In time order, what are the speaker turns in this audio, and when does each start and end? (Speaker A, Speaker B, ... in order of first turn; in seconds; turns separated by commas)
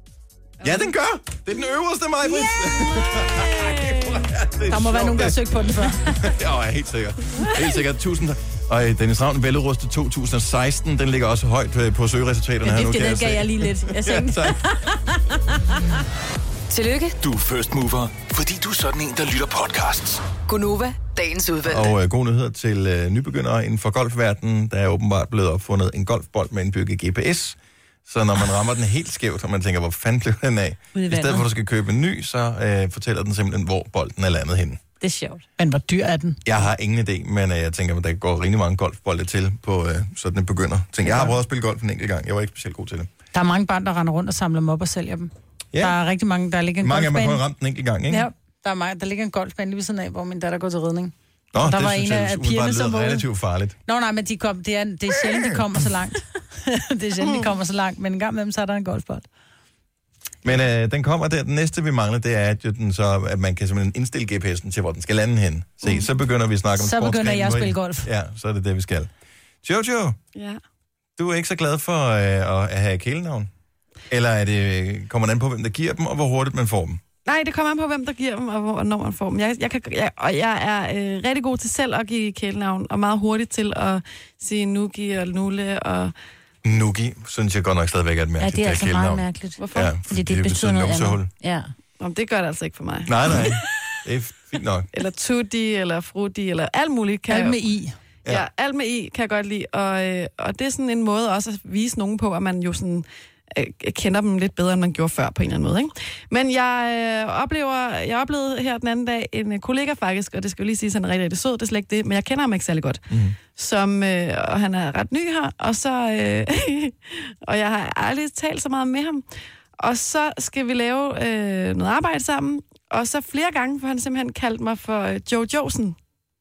Speaker A: 0.6-0.9, Speaker B: 0.6-14.6, Speaker C: 4.7-6.2, Speaker D: 12.6-15.8, Speaker E: 16.7-17.2, Speaker F: 17.2-20.3, Speaker E: 20.4-21.9, Speaker B: 21.6-34.8, Speaker D: 30.9-31.5, Speaker D: 35.0-35.4, Speaker C: 35.6-36.4, Speaker B: 36.4-43.1, Speaker C: 41.0-41.3, Speaker C: 43.3-47.4, Speaker B: 45.7-46.0, Speaker B: 46.8-48.3, Speaker C: 48.1-53.2, Speaker B: 51.5-53.8, Speaker C: 53.9-59.2, Speaker B: 60.4-69.1, Speaker C: 66.8-68.1, Speaker B: 69.6-70.2, Speaker A: 70.3-70.6, Speaker B: 71.2-73.5, Speaker B: 74.1-77.0, Speaker A: 77.2-86.1, Speaker B: 86.6-91.3, Speaker D: 88.4-91.7, Speaker A: 89.6-89.9, Speaker A: 92.0-93.4, Speaker B: 93.0-94.9, Speaker A: 94.9-97.6, Speaker C: 97.3-98.0, Speaker A: 98.3-119.2, Speaker B: 113.1-113.4, Speaker A: 119.8-126.0